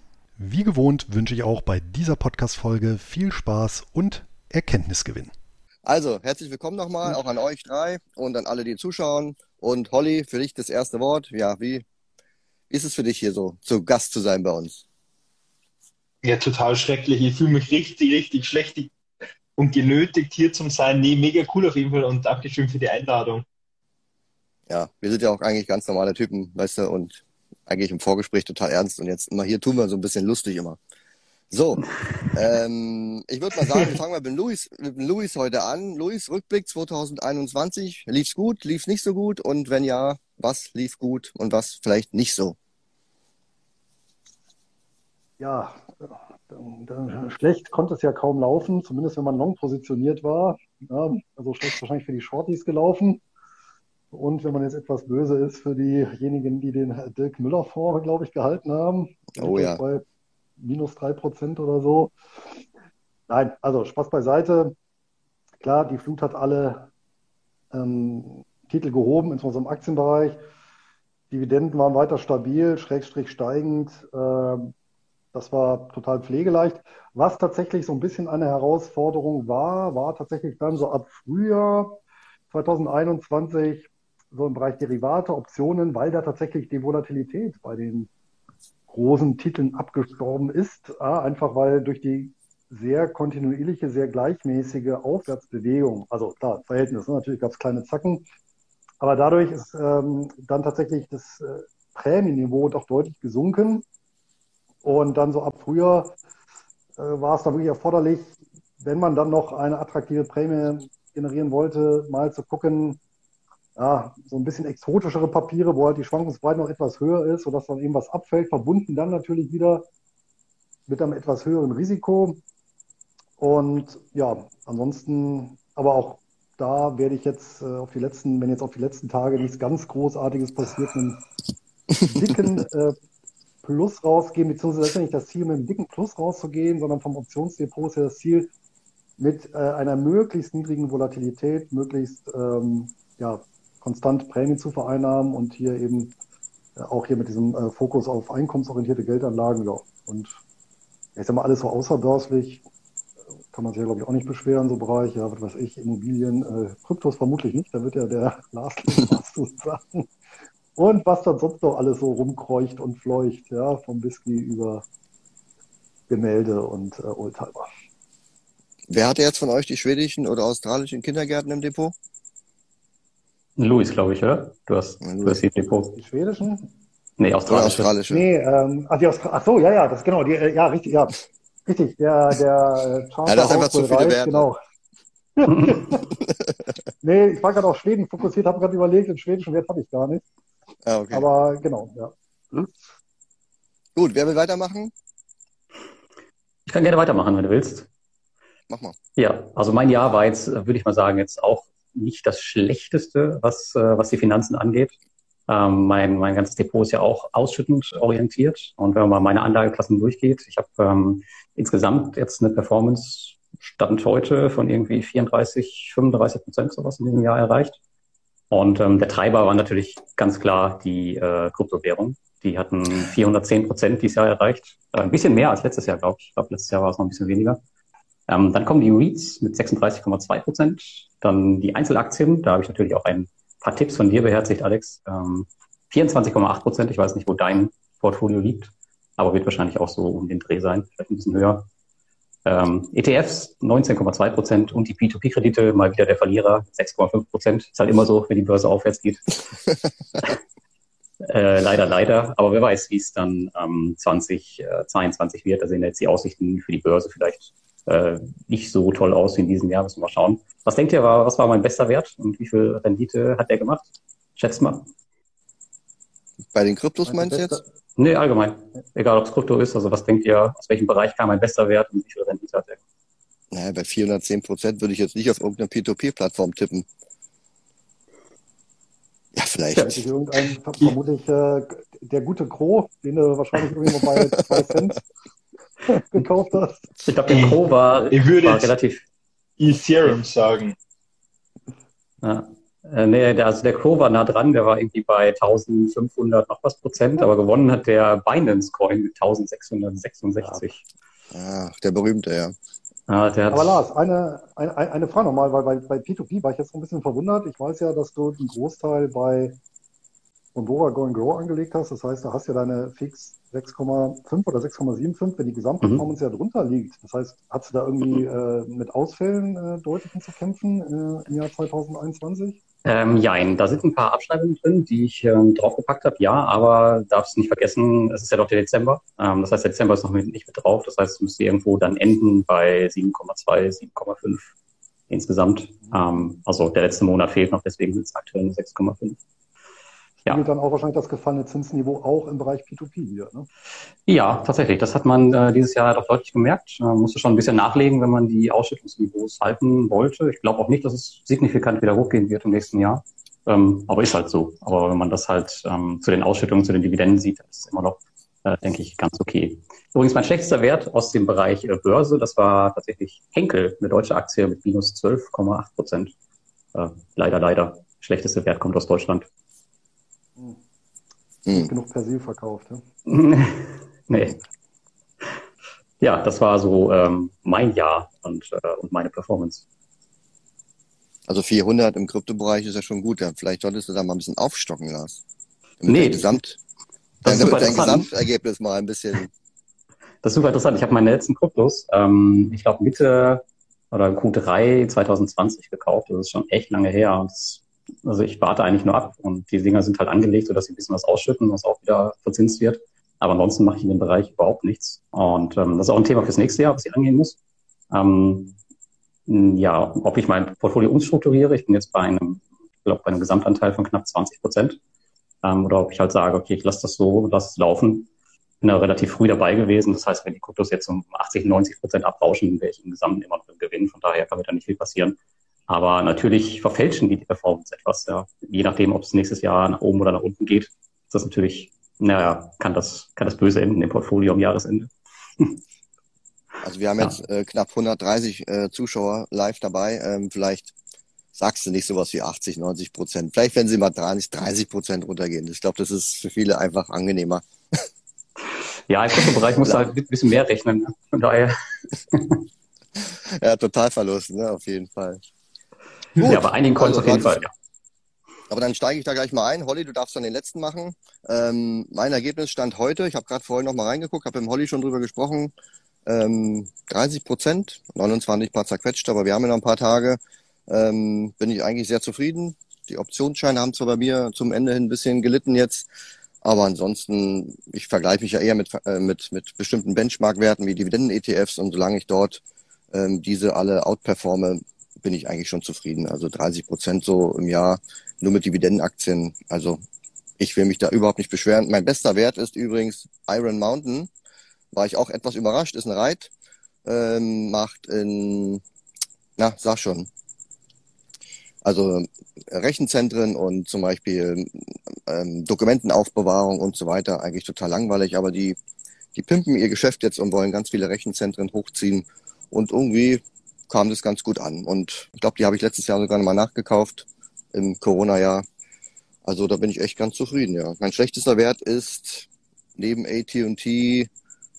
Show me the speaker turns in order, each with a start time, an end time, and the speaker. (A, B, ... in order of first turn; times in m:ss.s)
0:00.4-0:05.3 A
0:05.8-0:11.8 B
0:12.7-0:14.8 B
0:16.2-0:18.9 C
0:19.6-0:23.4 C
0:24.7-0:30.8 B
0:31.5-0:42.6 B
0:45.4-0:53.2 D
0:54.1-1:00.0 D
0:59.3-0:59.8 B
1:00.6-1:02.1 D
1:03.3-1:04.7 D
1:05.6-1:06.9 D
1:07.7-1:10.4 D
1:11.3-1:14.7 D
1:15.3-1:22.0 D
1:22.5-1:28.1 D
1:28.9-1:38.2 D
1:39.0-1:43.8 D
1:44.8-1:46.2 D
1:47.0-1:53.0 D
1:53.8-1:59.9 D
2:00.9-2:02.4 D
2:03.4-2:11.2 D
2:12.1-2:13.0 D
2:13.6-2:18.5 D
2:19.2-2:26.1 D
2:26.8-2:30.4 D
2:31.2-2:32.6 D
2:33.5-2:40.1 D
2:40.8-2:44.8 D
2:46.1-2:47.7 D
2:48.9-2:51.9 B
2:53.6-2:56.0 E
2:55.0-2:55.4 B
2:56.0-2:56.7 D
2:57.2-2:57.9 E
2:57.5-2:58.2 B
2:58.1-3:01.1 D
3:01.7-3:04.6 D
3:03.2-3:04.4 B
3:05.4-3:06.0 D
3:07.0-3:10.2 D
3:10.8-3:11.2 B
3:11.1-3:12.7 D
3:14.0-3:14.9 B
3:16.7-3:17.9 E
3:18.7-3:19.0 B
3:19.2-3:25.0 E
3:25.5-3:37.8 E
3:38.5-3:47.6 E
3:48.3-4:01.6 E
4:02.4-4:09.4 E
4:11.2-4:23.8 E
4:24.4-4:24.9 E
4:26.5-4:27.6 B
4:27.3-4:27.6 D
4:28.0-4:32.8 E
4:33.5-4:36.8 B
4:39.3-4:40.0 B
4:39.8-4:45.0 D
4:45.9-4:46.8 D
4:47.0-4:49.0 E
4:47.3-4:48.7 C
4:49.6-4:50.8 C
4:52.2-5:00.8 E
5:01.3-5:02.5 B
5:03.1-5:03.8 E
5:03.5-5:09.6 D
5:10.5-5:22.6 D
5:22.8-5:34.5 E
5:35.1-5:39.2 E
5:40.2-5:43.5 D
5:44.1-6:06.1 E
6:06.7-6:09.3 E
6:11.5-6:12.8 D
6:13.1-6:14.4 E
6:16.0-6:19.6 E
6:21.3-6:25.2 B
6:25.8-6:26.6 B
6:25.8-6:26.4 E
6:27.2-6:28.1 E
6:27.2-6:29.3 B
6:30.2-6:47.4 E
6:47.9-6:48.6 E
6:49.3-6:54.8 E
6:55.4-6:58.1 E
6:58.6-7:05.2 E
7:05.7-7:15.6 E
7:16.6-7:20.7 B
7:21.3-7:27.8 B
7:28.9-7:31.5 E
7:29.2-7:29.9 B
7:32.1-7:32.4 E
7:33.0-7:35.2 B
7:36.2-7:37.4 B
7:36.2-7:37.5 E
7:38.5-7:45.5 B
7:46.0-7:55.9 B
7:56.4-8:09.8 B
8:10.4-8:14.1 B
8:14.7-8:16.3 B
8:16.8-8:18.6 B
8:19.4-8:20.1 B
8:21.6-8:28.6 B
8:29.1-8:38.4 B
8:39.2-8:44.1 B